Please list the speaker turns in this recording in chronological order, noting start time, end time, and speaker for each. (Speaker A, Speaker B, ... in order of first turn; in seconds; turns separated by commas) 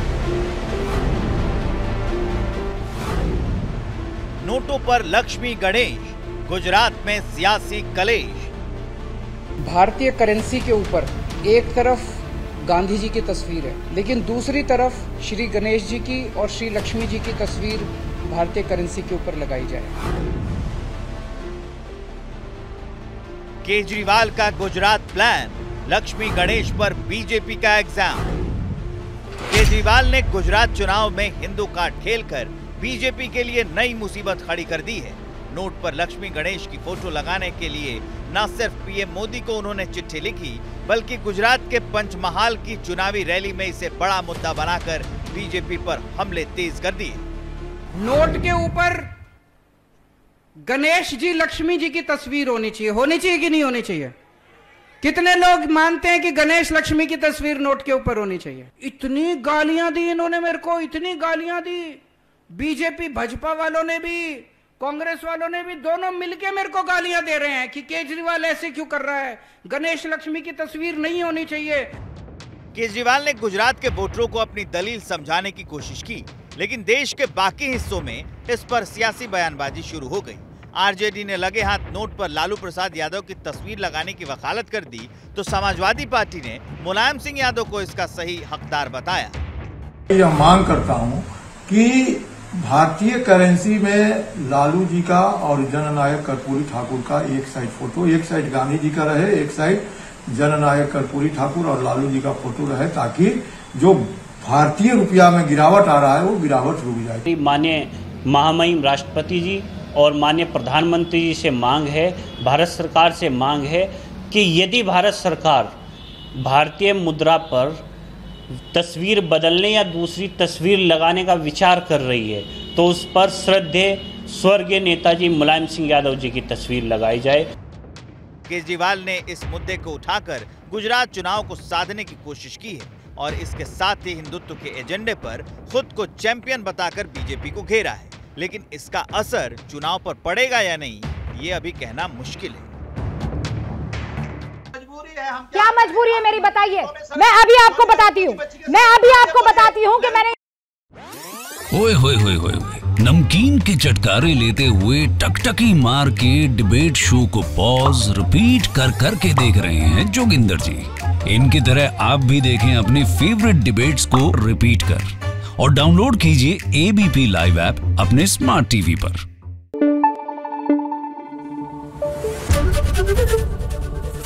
Speaker A: 4.4-8.5, Speaker B: 9.7-12.0, Speaker B: 12.7-19.9, Speaker A: 23.6-28.3, Speaker A: 29.5-47.2, Speaker B: 47.9-49.0, Speaker B: 50.6-54.1, Speaker B: 55.0-62.0, Speaker B: 62.5-71.9, Speaker A: 72.7-89.4, Speaker C: 90.1-107.2, Speaker D: 107.2-115.7, Speaker D: 116.4-117.8, Speaker D: 118.7-127.4, Speaker A: 128.5-142.7, Speaker E: 145.5-150.3, Speaker F: 151.7-165.1, Speaker F: 165.6-169.2